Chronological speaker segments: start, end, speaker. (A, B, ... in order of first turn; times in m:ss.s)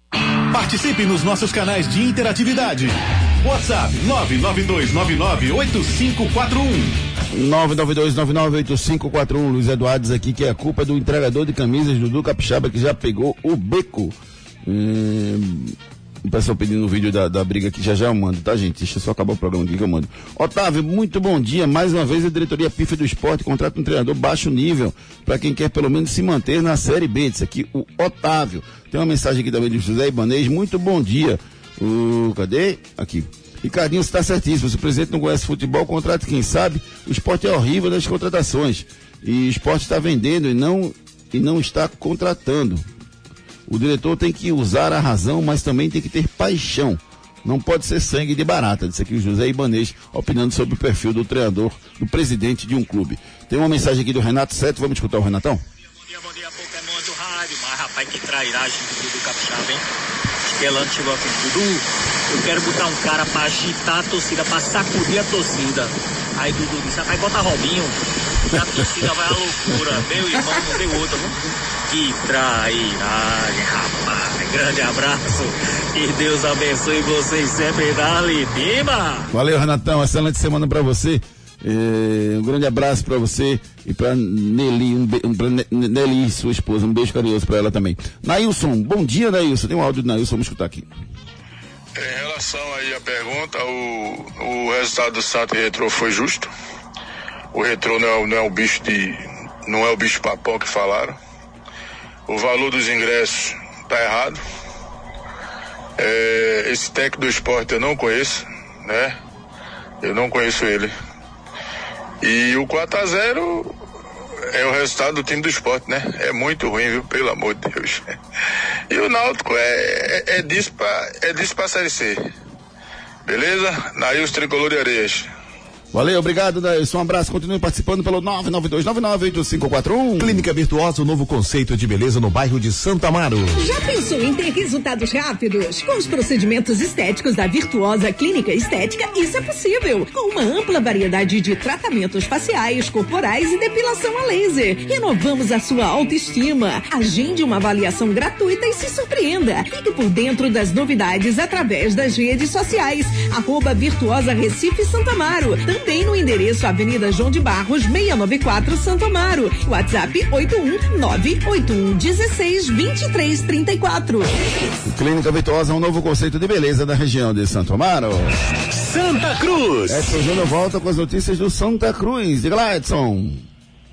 0:00.5-0:07.0 A
0:07.3-0:42.9 B
0:43.7-0:55.6 B
0:56.1-0:59.8 C
1:00.4-1:11.4 C
1:11.9-1:19.3 C
1:19.3-1:30.9 B
1:32.0-1:36.5 D
1:37.5-1:41.2 D
1:42.3-1:44.4 D
1:46.0-1:49.1 D
1:50.0-1:50.9 D
1:52.2-1:53.7 D
1:54.5-1:58.0 D
1:58.9-2:02.2 D
2:03.3-2:05.2 D
2:05.9-2:10.5 B
2:10.2-2:13.6 E
2:13.6-2:44.3 F
2:44.8-2:48.3 B
2:48.7-2:50.1 A
2:49.9-2:53.4 B